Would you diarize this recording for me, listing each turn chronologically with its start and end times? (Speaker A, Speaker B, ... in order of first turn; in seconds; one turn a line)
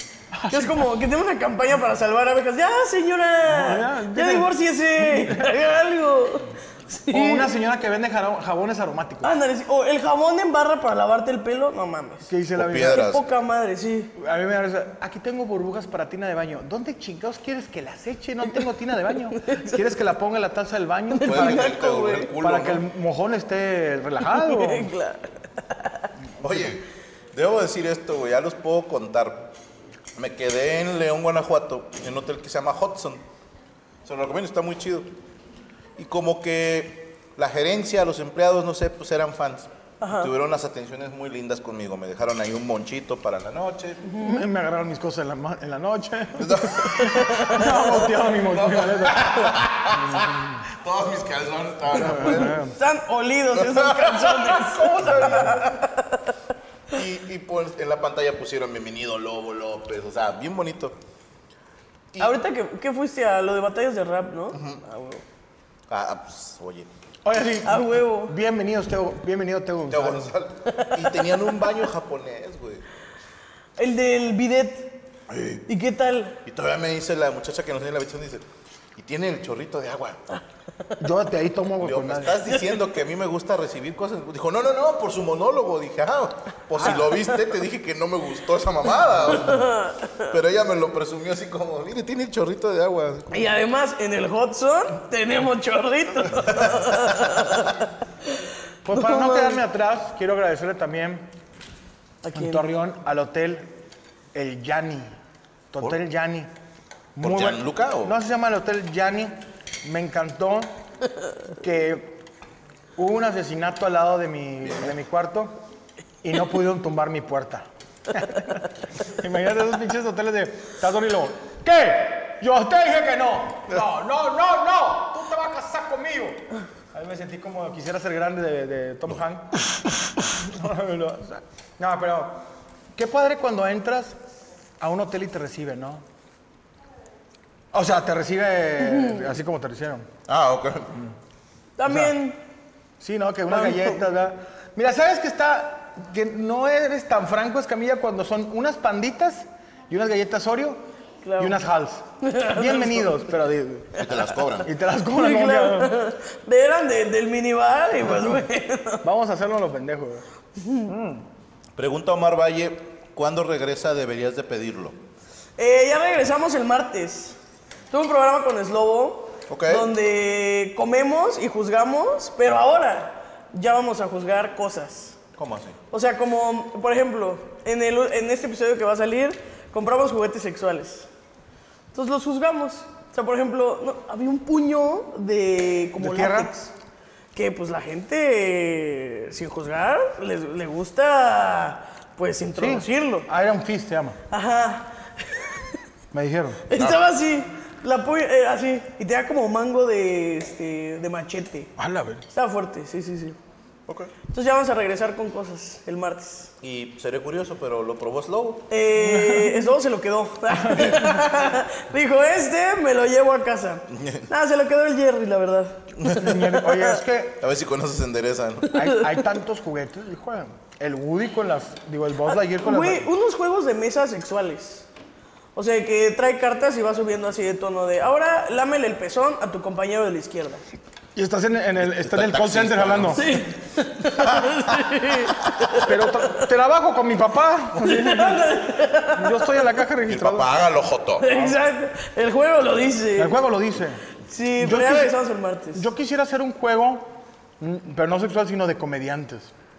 Speaker A: 0.4-0.9
Speaker B: 0.5-7.5
Speaker A: 3.5-5.5
Speaker A: 7.1-9.3
Speaker B: 9.2-12.3
Speaker A: 12.3-13.1
Speaker C: 12.6-13.2
Speaker B: 12.8-14.1
Speaker A: 14.2-21.7
Speaker B: 19.5-19.7
Speaker B: 21.1-22.3
Speaker C: 21.2-22.9
Speaker A: 22.4-24.9
Speaker B: 24.3-26.1
Speaker C: 26.4-29.5
Speaker C: 30.2-33.2
Speaker C: 34.0-35.1
Speaker C: 36.0-44.0
Speaker B: 40.0-40.3
Speaker B: 44.1-44.4
Speaker A: 44.2-50.4
Speaker C: 46.4-52.6
Speaker A: 52.0-52.7
Speaker B: 52.3-56.2
Speaker C: 53.5-55.3
Speaker A: 55.0-55.6
Speaker C: 56.9-61.0
Speaker B: 62.2-65.2
Speaker C: 64.5-64.8
Speaker C: 65.9-66.9
Speaker A: 67.2-70.3
Speaker B: 67.7-68.3
Speaker C: 69.9-72.8
Speaker B: 70.7-71.3
Speaker B: 73.8-75.0
Speaker C: 75.3-75.7
Speaker B: 75.7-76.4
Speaker C: 76.5-78.5
Speaker C: 79.0-80.2
Speaker A: 81.0-82.4
Speaker C: 81.8-93.5
Speaker B: 89.5-90.3
Speaker B: 93.3-97.8
Speaker C: 96.6-97.1
Speaker A: 98.9-101.3
Speaker B: 98.9-99.6
Speaker B: 102.2-102.7
Speaker A: 102.3-103.7
Speaker A: 104.3-105.2
Speaker A: 105.7-106.5
Speaker A: 107.2-110.7
Speaker C: 107.2-108.2
Speaker A: 111.5-112.2
Speaker A: 113.0-115.5
Speaker C: 114.6-114.9
Speaker A: 116.2-129.7
Speaker A: 130.2-132.4
Speaker A: 132.9-134.2
Speaker A: 134.8-136.0
Speaker A: 137.7-140.1
Speaker B: 138.9-139.2
Speaker C: 140.3-140.9
Speaker B: 141.8-142.4
Speaker A: 141.9-142.2
Speaker A: 143.0-150.8
Speaker B: 143.5-144.0
Speaker B: 151.2-151.6
Speaker A: 151.4-154.0
Speaker B: 152.2-153.2
Speaker C: 154.0-154.7
Speaker A: 154.6-155.9
Speaker B: 155.1-159.0
Speaker A: 159.0-160.2
Speaker B: 160.6-160.9
Speaker A: 160.8-161.2
Speaker C: 161.8-165.0
Speaker B: 165.6-167.4
Speaker B: 167.9-175.2
Speaker C: 169.5-169.9
Speaker C: 175.4-175.8
Speaker B: 175.9-181.1
Speaker B: 181.9-186.7
Speaker A: 186.0-186.5
Speaker B: 187.3-193.3
Speaker A: 192.6-194.2
Speaker B: 194.3-195.8
Speaker A: 196.1-196.6
Speaker B: 196.7-201.7
Speaker C: 196.8-197.0
Speaker A: 201.8-202.2
Speaker B: 202.3-203.4
Speaker C: 203.9-204.1
Speaker B: 204.3-206.5
Speaker C: 206.6-208.7
Speaker B: 208.7-216.9
Speaker A: 209.1-209.6
Speaker C: 210.8-211.0
Speaker C: 213.9-214.3
Speaker A: 216.1-217.4
Speaker C: 217.4-218.8
Speaker A: 218.7-223.1
Speaker B: 222.3-224.9
Speaker B: 225.6-230.6
Speaker A: 231.2-233.2
Speaker C: 231.8-233.4
Speaker B: 233.2-235.9
Speaker C: 234.2-234.8
Speaker A: 235.8-238.5
Speaker B: 237.8-239.7
Speaker A: 239.1-240.5
Speaker C: 240.1-241.3
Speaker B: 241.2-243.4
Speaker A: 243.2-244.0
Speaker B: 244.3-245.9
Speaker A: 244.6-245.1
Speaker A: 245.8-249.5